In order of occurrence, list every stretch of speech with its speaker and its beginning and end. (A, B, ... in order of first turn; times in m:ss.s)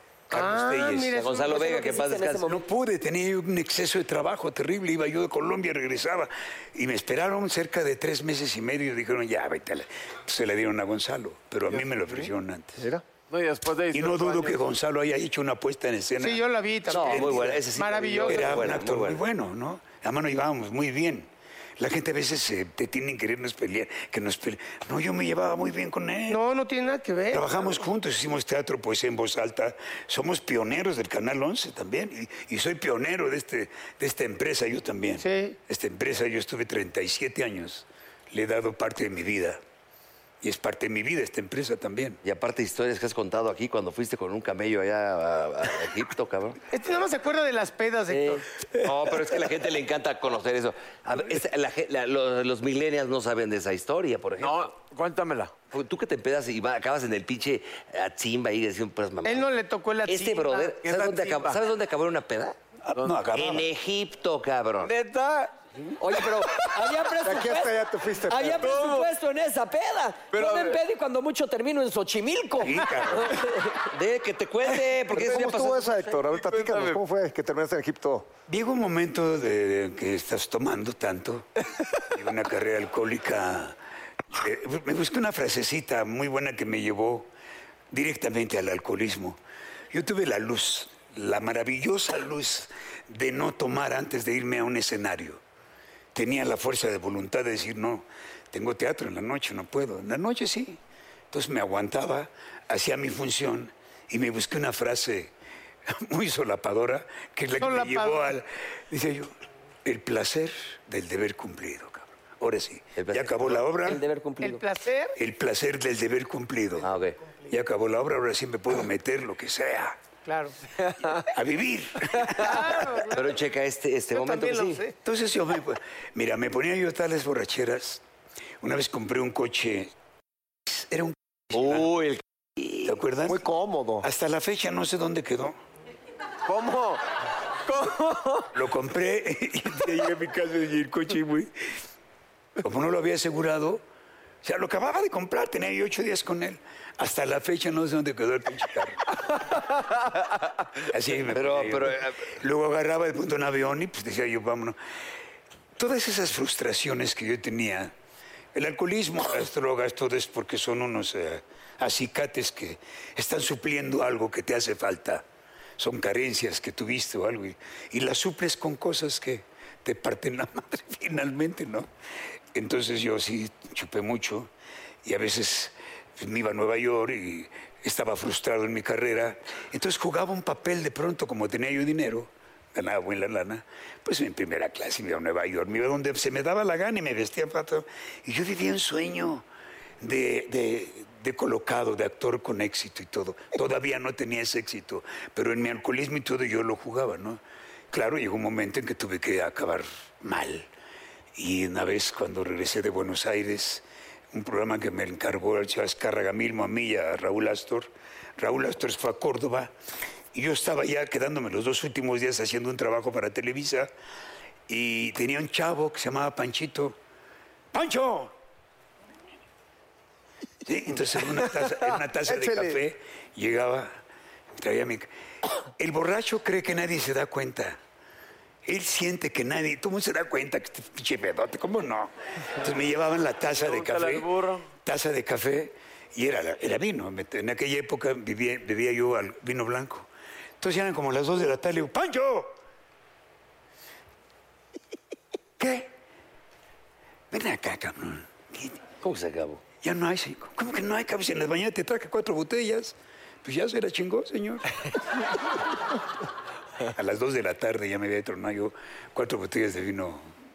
0:00.3-0:01.1 A
0:00.3-0:02.0 B
0:01.1-0:02.4 C
0:01.5-0:02.6 D
0:02.4-0:12.8 A
0:11.7-0:12.3 E
0:12.8-0:13.0 F
0:13.3-0:14.6 E
0:13.9-0:17.5 A
0:16.2-0:18.8 B
0:16.9-0:19.2 C
0:18.2-0:26.4 A
0:26.3-0:27.6 B
0:27.3-0:39.6 A
0:35.2-0:35.6 B
0:40.4-0:42.2 A
0:42.2-0:46.6 C
0:46.7-0:48.5 B
0:48.1-0:48.4 D
0:48.8-0:54.7 C
0:54.4-0:55.5 E
0:55.7-0:59.5 C
0:59.2-1:00.8 B
1:00.0-1:02.6 C
1:00.8-1:01.6 E
1:02.8-1:03.7 A
1:03.0-1:03.3 E
1:03.4-1:04.9 C
1:04.8-1:05.5 E
1:06.0-1:07.8 D
1:07.2-1:08.7 F
1:08.3-1:13.8 D
1:08.6-1:09.1 E
1:10.3-1:10.8 E
1:12.6-1:13.5 A
1:13.9-1:15.8 C
1:15.1-1:18.3 F
1:16.0-1:17.0 E
1:18.5-1:21.5 A
1:22.1-1:23.8 A
1:24.3-1:27.3 A
1:27.9-1:29.4 A
1:29.9-1:35.4 A
1:36.1-1:40.8 A
1:41.3-1:45.3 A
1:45.9-1:49.3 A
1:47.6-1:48.3 B
1:49.8-1:54.0 A
1:53.0-1:53.6 C
1:53.8-1:54.6 D
1:54.4-1:55.2 B
1:55.2-1:56.9 A
1:56.8-1:57.2 C
1:57.5-2:00.0 A
2:00.2-2:00.6 B
2:00.8-2:01.2 E
2:01.3-2:02.7 A
2:02.4-2:03.4 B
2:03.1-2:04.8 C
2:04.1-2:05.0 B
2:05.0-2:08.0 A
2:08.6-2:09.9 A
2:10.7-2:11.9 A
2:11.5-2:12.8 C
2:12.8-2:13.4 A
2:13.2-2:14.1 F
2:14.0-2:15.6 A
2:16.4-2:18.5 E
2:18.5-2:21.5 A
2:22.6-2:23.8 A
2:24.4-2:29.0 A
2:30.9-2:34.8 A
2:31.3-2:32.3 C
2:35.8-2:37.9 A
2:38.5-2:45.2 A
2:45.8-2:51.9 A
2:52.5-2:54.5 A
2:55.0-3:09.4 A
3:10.0-3:20.7 A
3:21.3-3:29.7 A
3:30.3-3:33.9 A
3:34.7-3:37.0 A
3:37.7-3:38.3 A
3:40.6-3:44.0 A
3:41.5-3:42.8 F
3:44.6-3:45.1 A
3:45.8-3:47.8 A
3:48.6-3:54.3 A
3:53.5-3:54.7 E
3:54.8-4:00.1 A
4:00.6-4:02.6 A
4:05.6-4:05.9 A
4:07.3-4:08.8 A
4:09.0-4:09.6 C
4:09.8-4:14.8 A
4:16.9-4:20.3 A